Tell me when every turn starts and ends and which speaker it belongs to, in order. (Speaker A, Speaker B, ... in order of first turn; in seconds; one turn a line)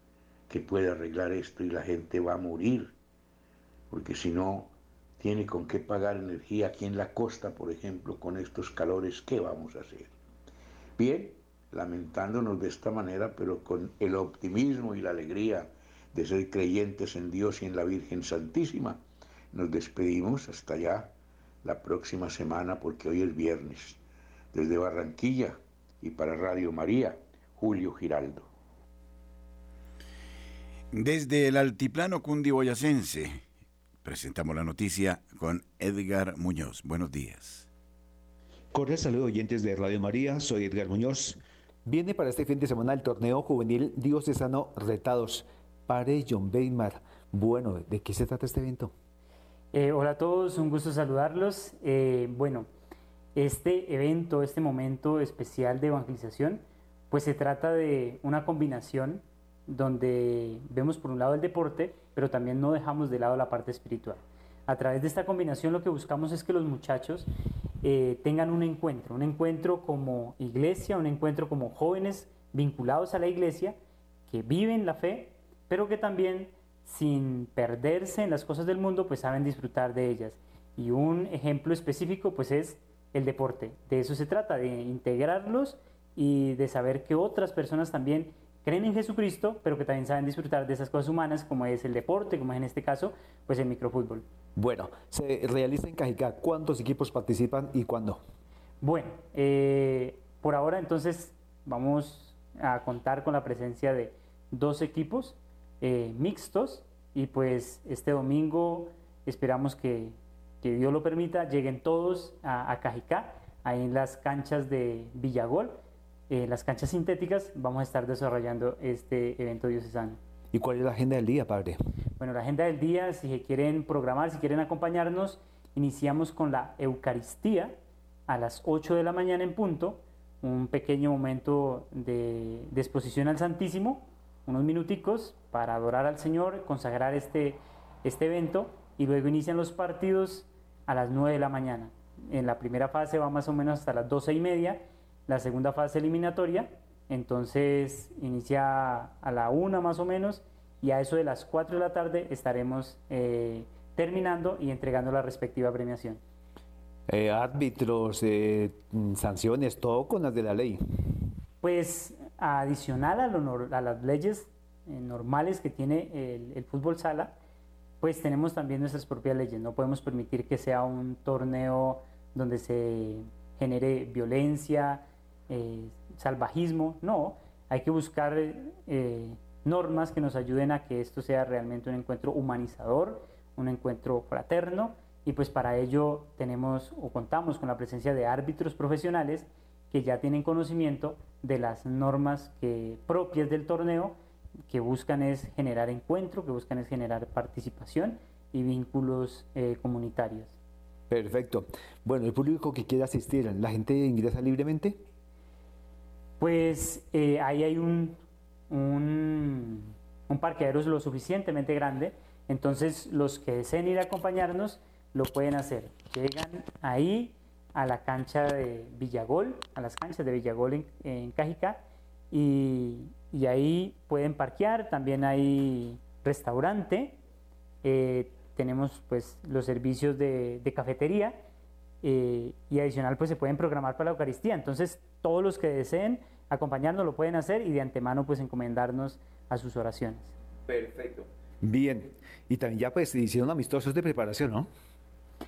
Speaker A: 0.5-2.9
Speaker A: 3.9-10.1
Speaker A: 11.0-24.0
Speaker A: 24.5-28.5
Speaker B: 30.9-33.4
Speaker B: 34.0-37.7
Speaker C: 38.7-48.9
Speaker D: 49.7-52.7
Speaker D: 53.4-67.3
Speaker D: 67.8-73.8
Speaker D: 74.3-94.2
Speaker C: 94.5-98.2
Speaker D: 98.8-115.8
Speaker D: 116.3-120.2
Speaker C: 120.5-121.8
Speaker D: 122.2-127.8
Speaker D: 128.3-156.2
Speaker C: 157.1-160.8
Speaker D: 161.6-167.3
Speaker D: 168.0-194.2
Speaker D: 194.7-200.5
Speaker C: 201.1-205.0
Speaker D: 206.4-208.2
Speaker D: 208.7-227.2
Speaker D: 227.8-231.4
Speaker D: 232.0-240.3
Speaker C: 240.7-244.7